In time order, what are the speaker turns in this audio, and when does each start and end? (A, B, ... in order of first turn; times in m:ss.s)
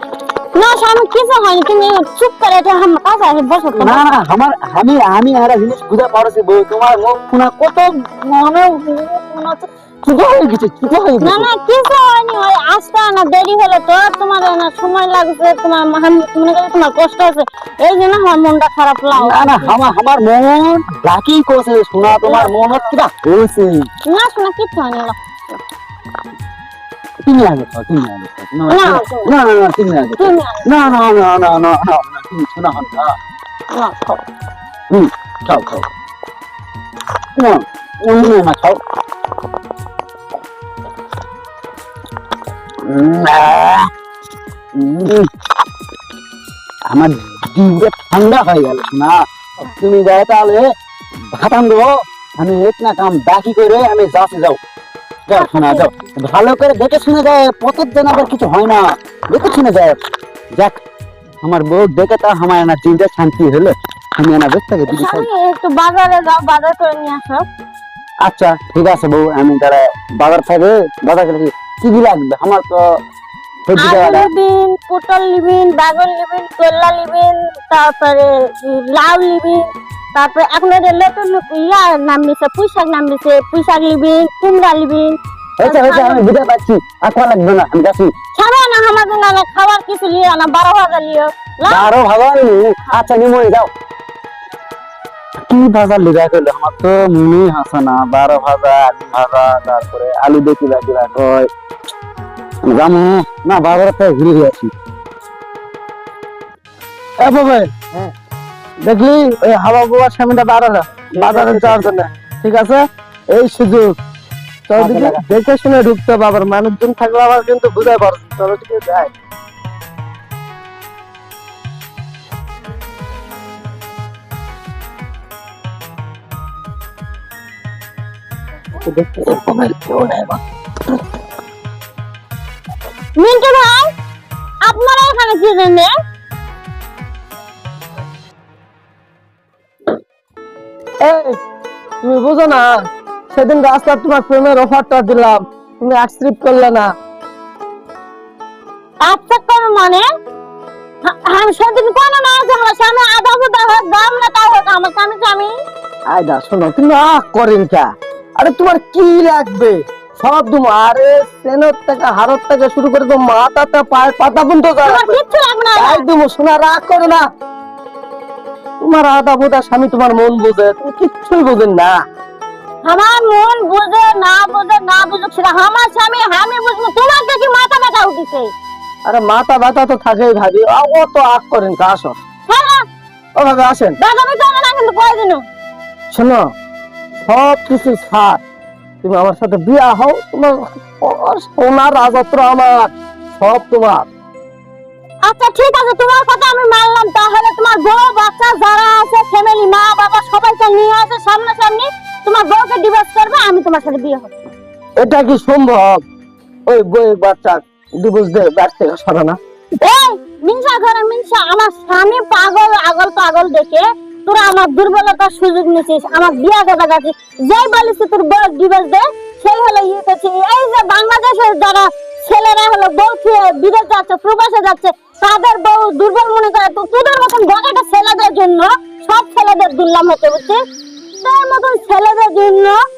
0:00.5-0:04.0 A
0:03.8-0:11.5 B
0:11.2-0:19.8 A
0:19.1-0:23.9 B
0:22.0-0:22.9 A
0:24.0-0:25.2 A
0:27.2-0:33.2 B
0:28.7-0:29.3 A
0:30.2-0:30.7 A
0:33.7-0:34.2 A
0:34.9-0:35.9 B
0:37.4-0:38.8 B
0:42.8-0:43.9 B
0:44.8-0:45.3 B
0:46.9-0:50.7 B
0:51.3-0:54.6 B
0:55.3-1:00.0 B
0:55.3-0:55.9 A
1:01.4-1:05.3 B
1:04.9-1:07.4 A
1:08.2-1:12.8 B
1:13.6-1:14.3 B
1:13.8-1:26.2 A
1:25.6-1:28.1 B
1:28.3-1:31.9 A
1:31.6-1:33.7 B
1:35.5-1:41.5 B
1:42.6-1:44.7 B
1:47.2-1:47.7 C
1:48.8-1:53.9 C
1:51.1-1:51.9 B
1:54.7-1:59.1 C
1:54.8-1:55.3 B
2:08.8-2:10.4 C
2:13.2-2:13.9 A
2:14.6-2:15.9 A
2:21.0-2:21.4 C
2:22.0-2:26.9 C
2:29.0-2:30.0 A
2:31.0-2:35.5 A
2:36.1-2:45.2 C
2:44.8-2:46.0 A
2:45.8-2:47.3 C
2:48.8-2:52.0 C
2:52.8-2:58.5 A
2:59.0-3:02.2 C
3:02.5-3:02.8 A
3:03.4-3:04.0 C
3:04.0-3:05.4 A
3:06.1-3:06.5 C
3:07.2-3:08.4 C
3:09.0-3:14.1 C
3:15.2-3:24.3 A
3:25.0-3:26.0 C
3:26.7-3:29.4 C
3:29.8-3:50.6 A
3:51.2-3:52.8 A